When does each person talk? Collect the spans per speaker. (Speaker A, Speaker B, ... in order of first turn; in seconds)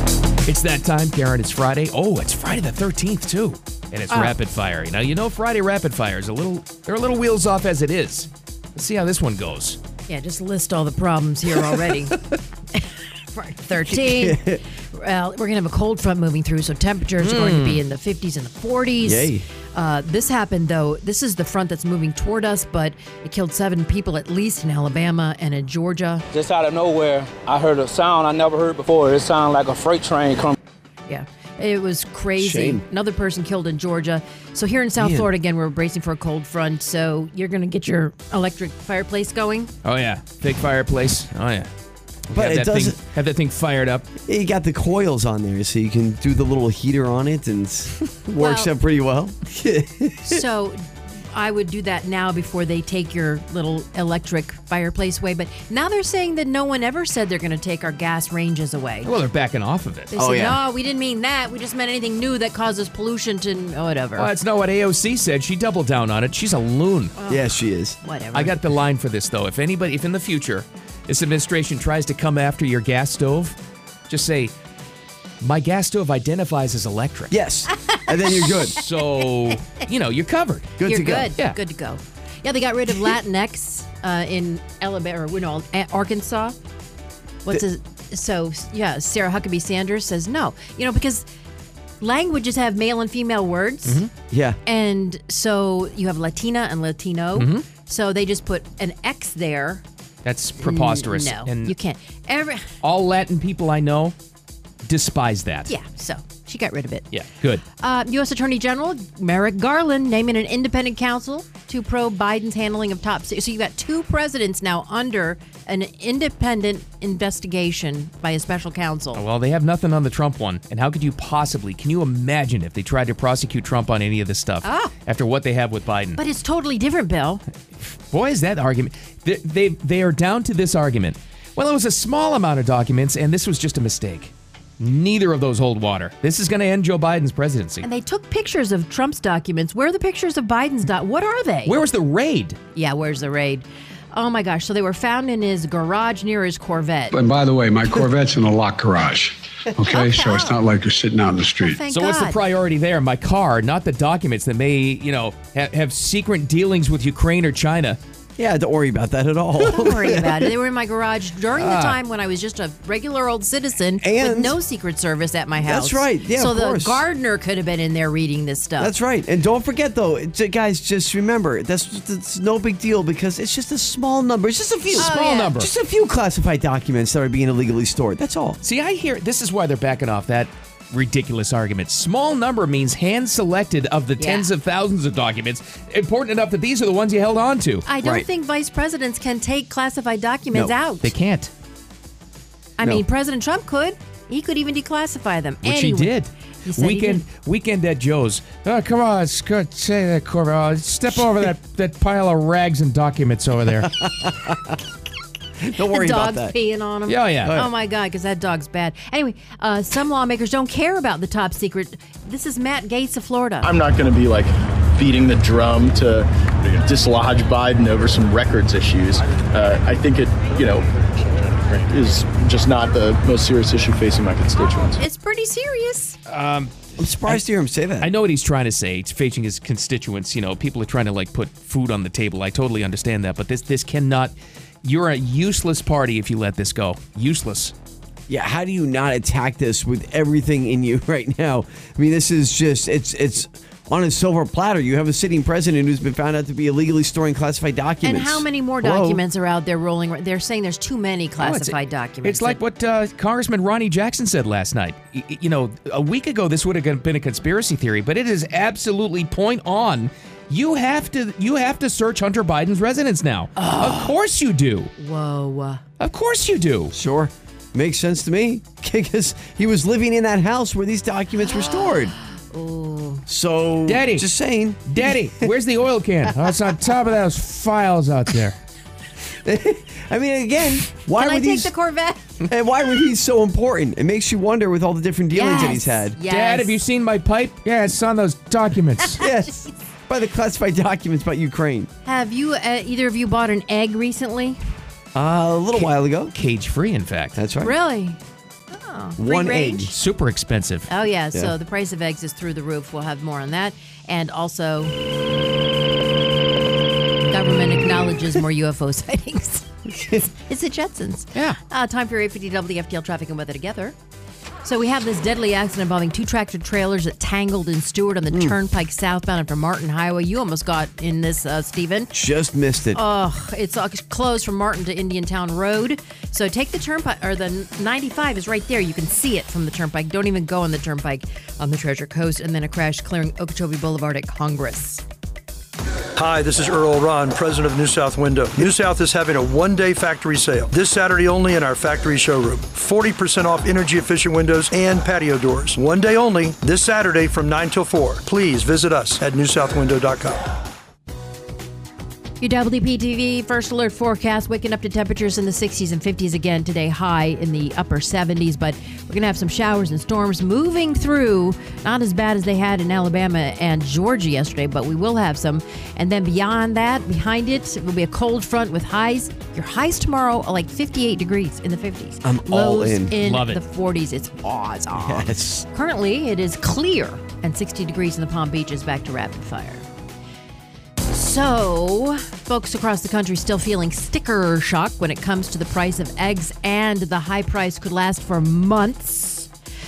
Speaker A: 0.4-9.8, 17.2-17.8, 39.8-41.7, 42.3-44.0, 59.0-60.1, 64.2-67.1, 68.3-73.5, 74.1-74.5, 75.4-77.3, 78.7-80.7, 93.8-94.1, 97.3-97.6, 100.2-101.7, 102.8-104.1, 104.8-105.7, 107.1-107.6, 119.1-126.2, 127.8-137.8, 141.6-142.6, 151.9-158.0, 161.5-162.0, 174.9-175.7, 178.6-187.8, 191.0-191.5, 195.6-203.9, 207.1-207.5, 226.3-227.4, 228.0-237.7, 251.4-264.9, 266.0-266.9, 273.9-274.2, 274.8-278.6, 286.2-289.2, 296.3-297.4, 299.9-300.9, 373.2-373.6
Speaker B: 4.1-4.3, 10.1-12.2, 12.7-26.2, 31.1-39.7, 48.4-48.7, 50.3-59.1, 60.1-64.3, 67.2-68.6, 77.9-79.0, 80.8-86.5, 87.4-91.2, 92.0-94.0, 94.6-99.8, 100.6-102.7, 105.7-107.1, 107.8-119.2, 124.6-124.9, 126.2-127.4, 137.8-141.8, 142.7-147.2, 149.8-150.6, 151.6-152.4, 159.6-168.9, 175.0-175.5, 184.2-184.5, 187.8-191.1, 192.8-196.1, 196.6-197.2, 205.8-213.7, 225.0-226.2, 248.0-252.6, 263.6-264.1, 265.0-265.8, 271.4-273.2, 281.1-282.2, 285.3-286.8, 289.2-289.8, 292.0-294.6, 297.6-298.2, 298.7-299.9, 300.9-304.9, 307.2-313.9, 314.6-322.1, 322.9-335.0, 352.4-379.8, 381.1-389.5
Speaker C: 13.9-14.6, 19.0-19.4, 32.4-32.8, 35.0-35.3, 42.3-43.0, 44.2-50.4, 60.1-60.6, 67.3-68.0, 77.3-78.8, 80.8-81.3, 94.3-94.6, 158.4-160.5, 164.0-164.6, 165.6-167.0, 168.8-178.6, 204.0-204.7, 205.6-206.5, 207.4-207.7, 227.0-228.1, 238.3-249.2, 266.9-272.1, 273.3-275.4, 279.2-281.7, 282.5-286.2, 289.2-291.9, 295.1-296.3, 297.4-297.7, 299.2-299.9, 309.9-310.2, 318.3-318.6, 322.1-323.0, 372.2-373.2, 374.9-375.6
Speaker D: 26.3-30.6
Speaker E: 147.1-151.8
Speaker F: 213.6-225.0
Speaker G: 336.2-350.5